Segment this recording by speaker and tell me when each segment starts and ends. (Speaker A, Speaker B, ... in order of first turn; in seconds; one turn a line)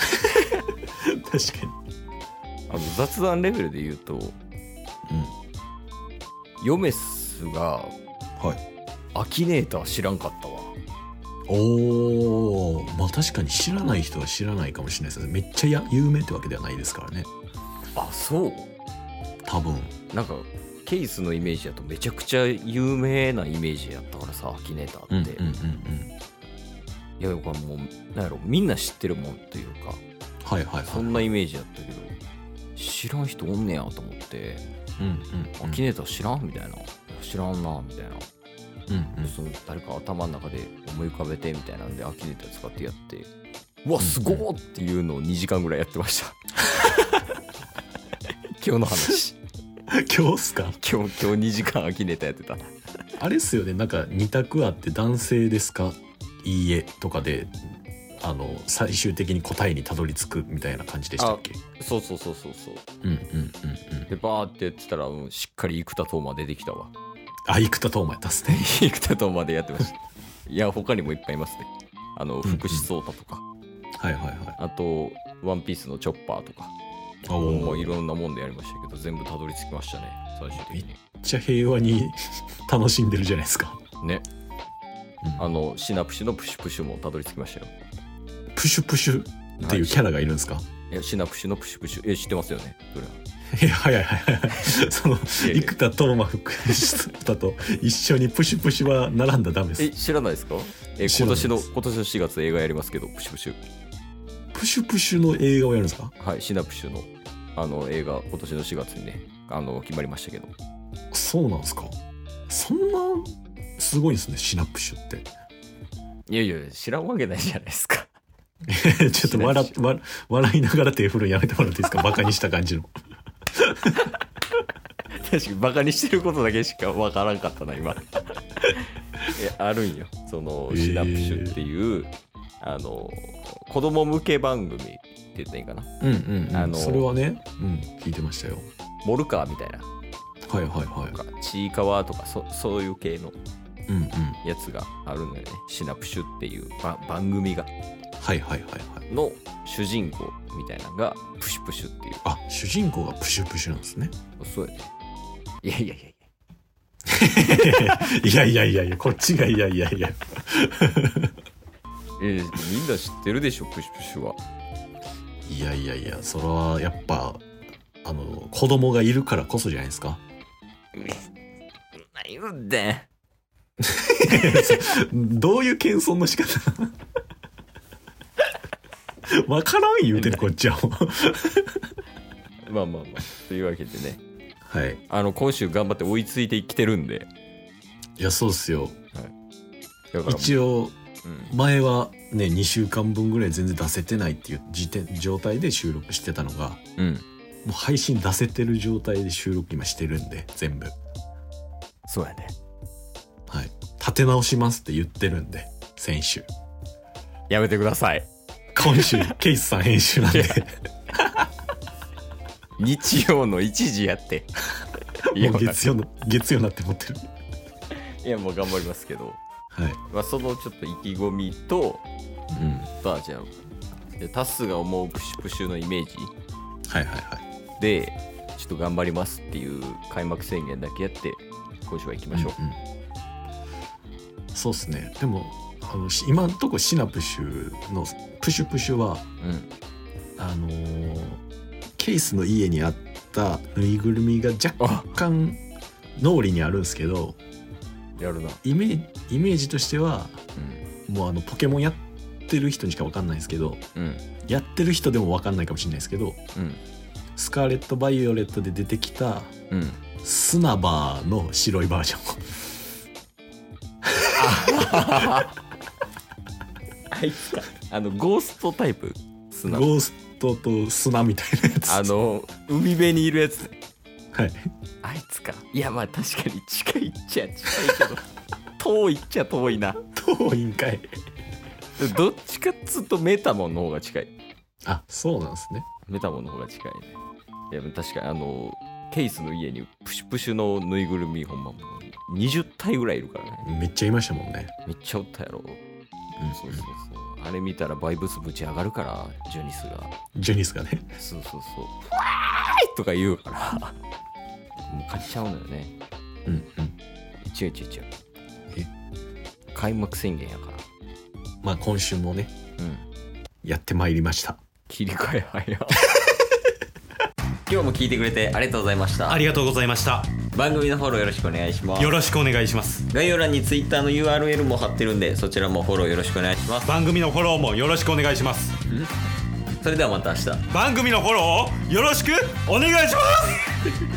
Speaker A: 0.2-1.8
Speaker B: 2.7-4.3
Speaker A: 5.1-5.3
Speaker B: 6.6-7.9
Speaker B: 9.1-10.7
Speaker A: 11.5-17.3
Speaker B: 17.9-18.7
Speaker A: 19.4-19.9
Speaker B: 20.1-25.4
Speaker A: 25.1-26.1
Speaker B: 27.2-30.0
Speaker A: 30.4-31.3
Speaker B: 30.9-32.1
Speaker B: 32.8-34.6
Speaker A: 35.0-35.8
Speaker B: 35.6-38.3
Speaker A: 38.9-39.3
Speaker B: 39.2-43.3
Speaker B: 43.8-47.3
Speaker A: 44.0-44.4
Speaker B: 48.6-49.4
Speaker A: 49.9-50.8
Speaker B: 50.8-52.7
Speaker A: 53.2-61.6
Speaker B: 61.2-62.8
Speaker A: 63.0-64.1
Speaker B: 64.1-66.9
Speaker A: 67.5-68.7
Speaker B: 68.4-73.4
Speaker A: 72.4-72.9
Speaker A: 74.0-74.6
Speaker B: 74.6-76.7
Speaker A: 77.3-78.0
Speaker B: 77.4-81.0
Speaker A: 80.7-83.8
Speaker B: 85.4-87.7
Speaker A: 88.5-90.7
Speaker B: 89.6-90.1
Speaker B: 90.9-93.2
Speaker A: 93.5-99.9
Speaker B: 95.4-95.8
Speaker B: 99.8-103.6
Speaker A: 101.0-101.7
Speaker A: 104.5-106.1
Speaker B: 106.2-110.5
Speaker A: 111.1-111.9
Speaker A: 112.5-115.3
Speaker B: 116.3-118.1
Speaker A: 118.7-122.9
Speaker B: 119.1-119.8
Speaker A: 123.5-124.1
Speaker B: 125.2-128.0
Speaker B: 128.6-135.9
Speaker A: 130.7-131.6
Speaker A: 136.0-138.7
Speaker B: 136.5-137.1
Speaker B: 139.0-139.9
Speaker A: 140.5-141.2
Speaker B: 141.1-143.3
Speaker A: 143.9-144.4
Speaker B: 144.4-147.7
Speaker A: 148.2-149.0
Speaker B: 149.1-152.2
Speaker A: 152.2-154.1
Speaker B: 154.4-154.9
Speaker B: 155.6-156.3
Speaker A: 157.1-161.3
Speaker B: 157.5-158.0
Speaker B: 162.2-164.4
Speaker A: 165.4-167.4
Speaker A: 168.0-170.2
Speaker B: 172.0-173.1
Speaker A: 173.8-176.9
Speaker A: 179.3-181.8
Speaker B: 180.1-180.5
Speaker B: 182.7-184.2
Speaker A: 184.7-185.0
Speaker B: 185.1-187.3
Speaker A: 188.2-189.0
Speaker B: 190.1-190.6
Speaker A: 190.2-196.8
Speaker B: 191.2-191.5
Speaker B: 197.0-197.2
Speaker A: 197.6-200.9
Speaker B: 202.1-202.5
Speaker A: 203.5-206.5
Speaker B: 207.5-209.3
Speaker A: 208.7-211.5
Speaker B: 210.2-210.6
Speaker B: 212.8-214.6
Speaker A: 215.3-217.3
Speaker B: 215.3-215.8
Speaker B: 217.9-219.4
Speaker A: 219.7-220.0
Speaker B: 220.1-222.0
Speaker A: 222.5-222.9
Speaker B: 222.9-223.5
Speaker B: 224.2-226.3
Speaker A: 226.9-227.4
Speaker B: 227.8-232.6
Speaker A: 232.3-232.8
Speaker A: 234.5-239.2
Speaker B: 239.4-239.7
Speaker A: 240.4-241.4
Speaker A: 242.0-245.6
Speaker B: 244.8-245.2
Speaker A: 246.2-247.4
Speaker B: 248.2-248.6
Speaker A: 248.6-250.4
Speaker B: 250.6-250.8
Speaker A: 251.1-253.8
Speaker B: 253.9-254.2
Speaker A: 254.5-256.4
Speaker B: 256.5-256.8
Speaker A: 257.4-259.5
Speaker B: 259.7-260.0
Speaker A: 260.2-262.6
Speaker B: 264.3-265.6
Speaker B: 267.1-269.9
Speaker A: 269.7-272.1
Speaker B: 271.9-273.8
Speaker A: 274.3-274.7
Speaker B: 275.0-278.3
Speaker B: 278.8-280.0
Speaker A: 280.1-281.1
Speaker B: 282.0-284.3
Speaker A: 284.8-285.9
Speaker B: 286.1-287.2
Speaker B: 287.7-293.7
Speaker A: 293.6-294.7
Speaker B: 294.9-295.8
Speaker A: 296.4-296.8
Speaker B: 296.5-300.1
Speaker A: 300.4-301.1
Speaker B: 301.2-304.0
Speaker B: 304.9-305.9
Speaker A: 306.4-306.9
Speaker B: 307.4-308.1
Speaker B: 309.7-310.8
Speaker A: 311.6-312.5
Speaker B: 312.8-313.1
Speaker A: 313.6-314.6
Speaker B: 314.9-316.1
Speaker B: 317.7-319.5
Speaker C: 319.3-320.3
Speaker B: 320.5-322.2
Speaker C: 322.0-323.1
Speaker B: 323.1-326.9
Speaker C: 326.8-328.8
Speaker B: 329.8-330.7
Speaker C: 330.7-333.8